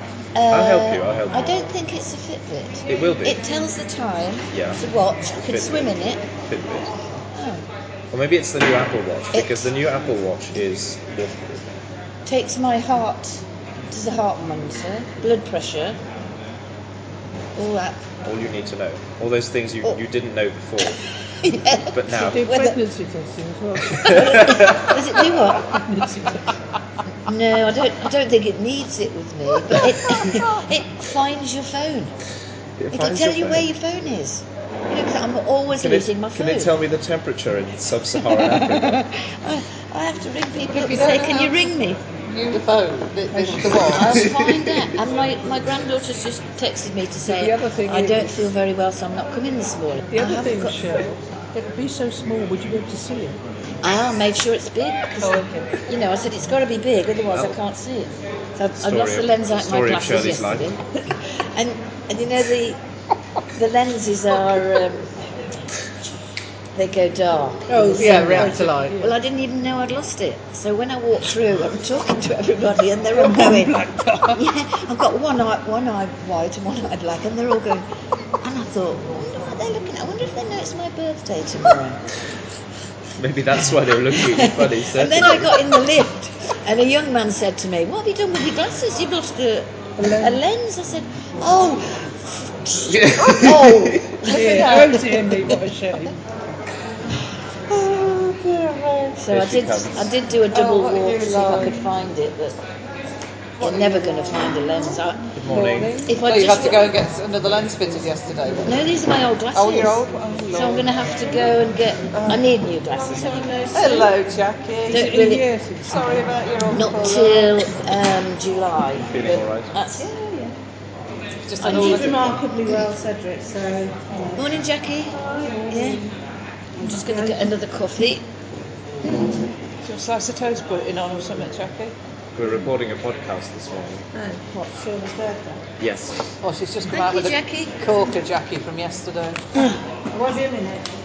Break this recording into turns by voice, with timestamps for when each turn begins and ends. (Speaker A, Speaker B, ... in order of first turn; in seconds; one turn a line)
Speaker A: 0.3-6.2
Speaker B: 0.5-1.5
Speaker B: 2.9-3.4
Speaker B: 4.5-6.9
Speaker A: 7.3-7.6
Speaker B: 8.1-11.6
Speaker A: 9.3-9.7
Speaker A: 12.2-16.0
Speaker A: 17.5-18.1
Speaker B: 18.2-21.0
Speaker A: 21.4-22.8
Speaker B: 21.9-22.4
Speaker C: 22.1-24.6
Speaker A: 24.0-25.8
Speaker B: 24.1-24.6
Speaker C: 25.8-26.4
Speaker A: 27.2-32.1
Speaker B: 32.8-33.7
Speaker A: 32.9-36.7
Speaker B: 35.8-39.0
Speaker A: 38.3-42.0
Speaker D: 40.7-44.7
Speaker C: 43.3-44.2
Speaker A: 43.7-51.0
Speaker D: 47.3-48.2
Speaker C: 47.3-48.3
Speaker C: 50.1-53.4
Speaker A: 53.8-62.8
Speaker C: 55.2-55.7
Speaker B: 58.8-60.7
Speaker A: 63.5-65.3
Speaker A: 66.7-77.9
Speaker C: 67.7-69.1
Speaker D: 67.9-69.1
Speaker C: 73.1-74.4
Speaker A: 78.4-82.0
Speaker B: 83.2-85.6
Speaker A: 84.1-95.6
Speaker C: 90.0-90.4
Speaker D: 92.8-94.3
Speaker C: 94.2-96.2
Speaker D: 97.7-99.2
Speaker A: 99.2-102.6
Speaker B: 99.3-100.1
Speaker D: 100.5-101.8
Speaker A: 103.6-105.3
Speaker D: 103.6-104.3
Speaker B: 105.3-106.0
Speaker D: 105.5-108.8
Speaker A: 106.0-106.9
Speaker A: 108.6-113.6
Speaker D: 109.5-110.9
Speaker D: 112.1-112.5
Speaker E: 112.9-114.1
Speaker D: 113.7-115.2
Speaker C: 114.9-117.1
Speaker A: 114.9-115.5
Speaker D: 115.8-117.5
Speaker A: 116.7-120.1
Speaker B: 119.0-119.7
Speaker E: 120.0-120.5
Speaker D: 121.4-122.4
Speaker E: 121.6-124.5
Speaker A: 121.6-122.2
Speaker A: 124.3-126.0
Speaker E: 125.2-126.1
Speaker A: 126.8-128.2
Speaker E: 126.9-127.4
Speaker D: 129.8-131.9
Speaker B: 132.3-134.0
Speaker E: 134.1-135.6
Speaker B: 135.8-136.4
Speaker D: 136.4-139.4
Speaker A: 136.9-137.7
Speaker E: 140.1-140.9